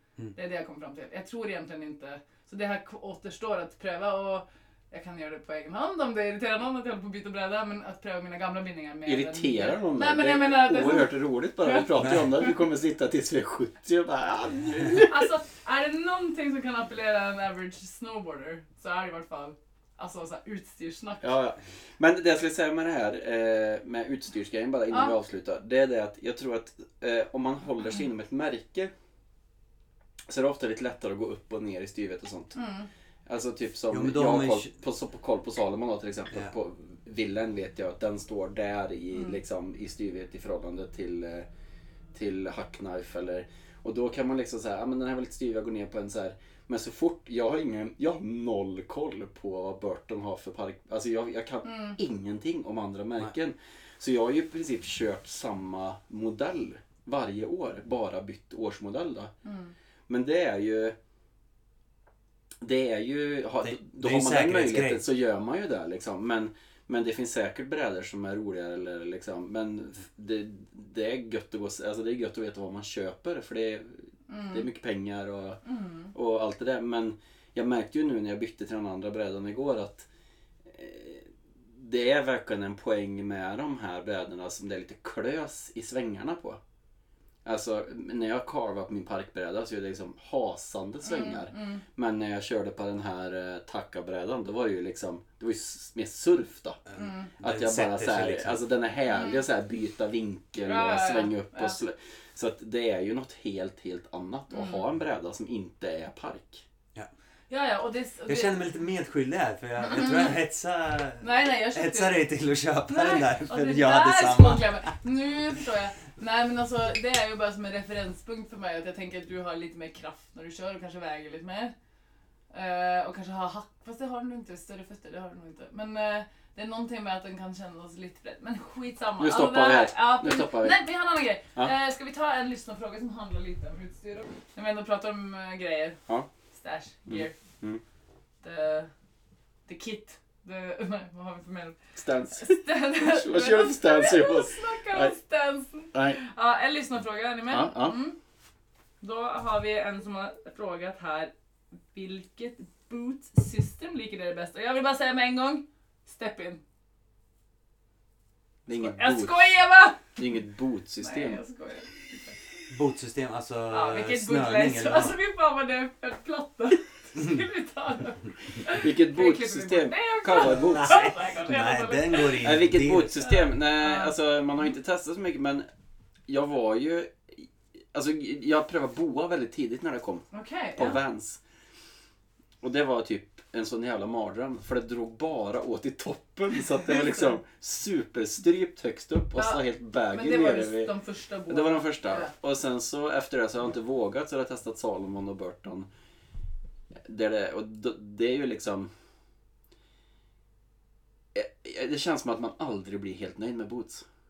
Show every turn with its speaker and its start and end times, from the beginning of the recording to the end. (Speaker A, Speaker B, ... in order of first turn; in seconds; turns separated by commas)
Speaker A: 0.3-12.5, Speaker B: 9.1-15.3, Speaker A: 14.9-21.3, Speaker B: 21.2-28.9, Speaker B: 30.3-32.6, Speaker A: 32.5-32.9, Speaker B: 33.3-41.5, Speaker C: 33.9-34.7, Speaker B: 42.1-59.3, Speaker A: 51.6-52.0, Speaker A: 59.5-59.7, Speaker B: 60.1-61.0, Speaker B: 62.6-75.6, Speaker C: 63.6-65.0, Speaker A: 74.3-74.7, Speaker A: 75.7-76.1, Speaker B: 76.1-80.1, Speaker B: 80.7-86.6, Speaker B: 87.5-96.8, Speaker A: 91.0-91.8, Speaker C: 96.9-98.6, Speaker A: 97.0-97.3, Speaker B: 97.4-106.7, Speaker A: 99.1-99.4, Speaker A: 100.6-101.8, Speaker A: 104.5-104.8, Speaker A: 107.5-108.6, Speaker C: 108.3-114.9, Speaker A: 109.8-110.3, Speaker A: 111.2-112.2, Speaker A: 112.9-121.7, Speaker A: 122.5-136.0, Speaker B: 129.2-130.8, Speaker A: 136.5-137.3, Speaker B: 137.1-137.8, Speaker A: 138.4-138.9, Speaker A: 139.7-141.8, Speaker B: 142.0-145.1, Speaker A: 142.3-148.2, Speaker B: 145.9-146.2, Speaker B: 147.5-148.0, Speaker A: 149.0-151.3, Speaker A: 151.9-156.6, Speaker B: 158.7-159.5, Speaker A: 158.7-160.1, Speaker B: 160.2-161.4, Speaker A: 161.0-162.4, Speaker C: 162.7-165.2, Speaker A: 163.7-172.5, Speaker B: 168.7-171.0, Speaker C: 170.4-173.2, Speaker B: 172.4-175.7, Speaker A: 173.2-174.1, Speaker B: 176.3-181.4, Speaker A: 180.3-181.0, Speaker B: 182.6-190.9, Speaker A: 189.4-192.3, Speaker B: 191.5-195.9, Speaker B: 197.1-198.9, Speaker B: 201.3-204.0